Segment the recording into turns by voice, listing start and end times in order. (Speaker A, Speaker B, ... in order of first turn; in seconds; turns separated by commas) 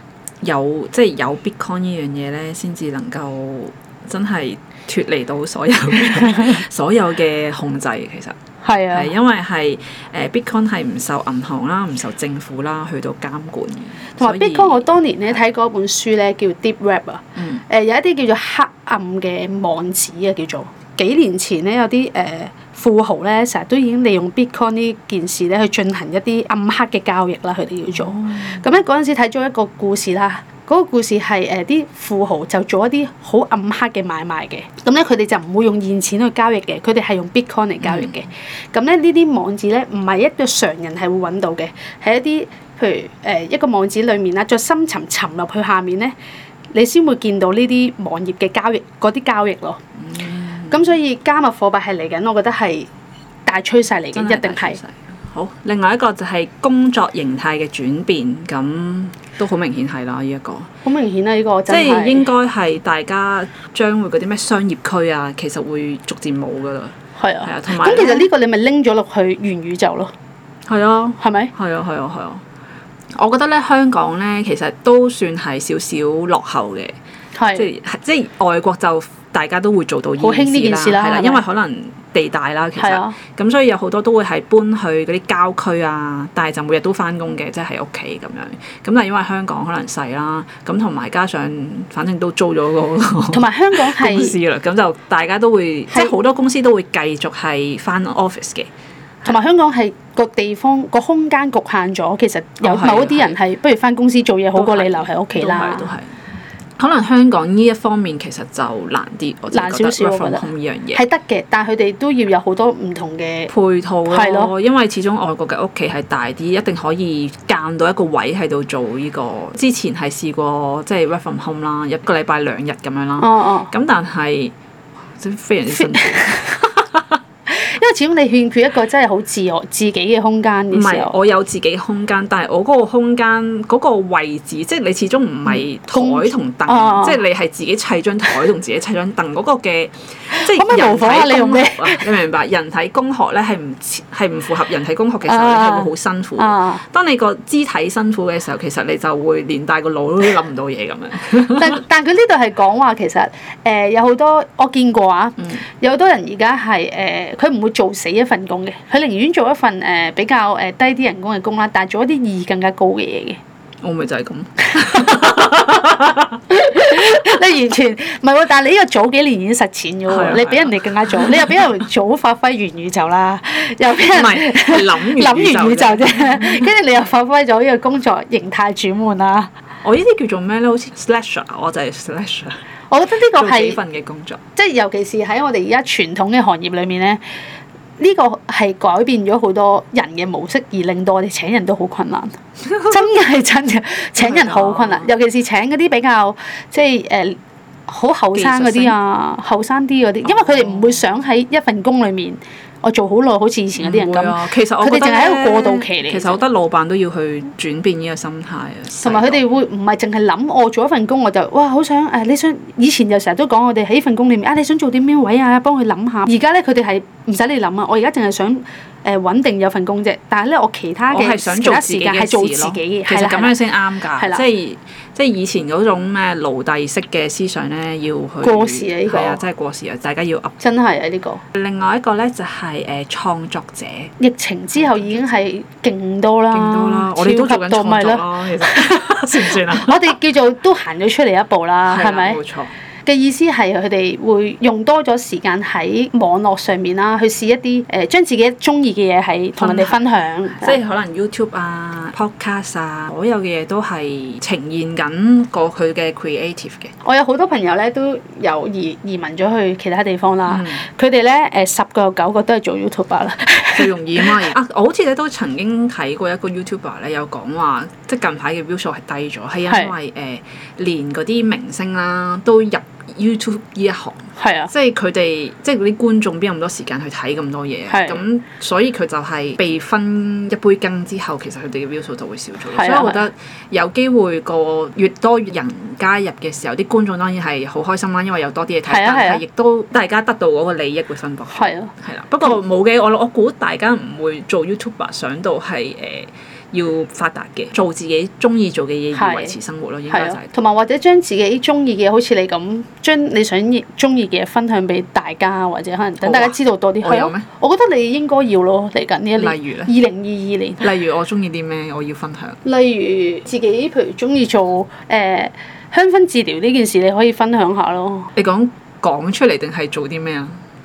Speaker A: 0.4-8.4, Speaker B: 8.6-9.1, Speaker A: 8.9-14.9, Speaker B: 14.2-46.1, Speaker A: 17.4-17.6, Speaker A: 28.1-28.6, Speaker A: 37.8-38.1, Speaker B: 46.7-49.8, Speaker A: 50.0-50.9, Speaker B: 50.7-52.9, Speaker B: 53.5-54.8, Speaker A: 54.1-60.7, Speaker B: 60.9-62.3, Speaker A: 61.7-68.3, Speaker B: 67.2-70.1, Speaker A: 70.7-72.4, Speaker B: 71.2-71.5, Speaker A: 73.2-77.0, Speaker B: 77.3-77.7, Speaker A: 77.5-98.7, Speaker B: 80.2-81.4, Speaker B: 82.8-83.2, Speaker B: 93.3-94.3, Speaker B: 99.2-105.9, Speaker A: 102.6-103.4, Speaker A: 104.6-106.2, Speaker A: 106.8-111.0, Speaker B: 109.5-113.5, Speaker A: 113.5-124.5, Speaker B: 114.1-114.5, Speaker B: 123.2-123.7, Speaker A: 125.2-127.2, Speaker B: 125.7-126.4, Speaker B: 127.5-131.1, Speaker A: 130.7-151.8, Speaker B: 135.9-137.2, Speaker B: 140.3-142.1, Speaker B: 145.3-146.8, Speaker B: 151.5-163.4, Speaker A: 163.8-166.4, Speaker B: 164.8-165.5, Speaker B: 166.5-179.5, Speaker A: 170.1-171.6, Speaker A: 174.1-176.7, Speaker A: 179.8-182.6, Speaker B: 182.9-183.8, Speaker A: 183.3-184.4, Speaker B: 184.6-187.2, Speaker B: 188.0-192.3, Speaker B: 192.9-206.4, Speaker A: 194.2-195.1, Speaker A: 198.3-199.0, Speaker A: 200.2-201.1, Speaker A: 203.8-209.4, Speaker B: 209.0-223.6, Speaker A: 221.1-230.6, Speaker B: 224.2-224.4, Speaker B: 228.4-229.4, Speaker B: 230.6-231.4, Speaker A: 231.5-234.1, Speaker B: 234.2-242.4, Speaker A: 236.5-240.2, Speaker A: 241.9-242.7, Speaker B: 243.1-250.8, Speaker A: 249.6-250.0, Speaker A: 250.5-256.9, Speaker B: 257.0-264.5, Speaker A: 260.5-260.8, Speaker A: 263.7-300.5, Speaker B: 269.7-269.9, Speaker B: 274.4-274.7, Speaker B: 277.9-278.2, Speaker B: 282.7-283.2, Speaker B: 288.9-289.4, Speaker B: 291.5-291.9, Speaker B: 299.1-299.6, Speaker B: 300.1-310.8, Speaker A: 306.2-307.5, Speaker A: 309.4-309.9, Speaker A: 310.8-312.6, Speaker B: 312.6-318.3, Speaker A: 318.4-320.6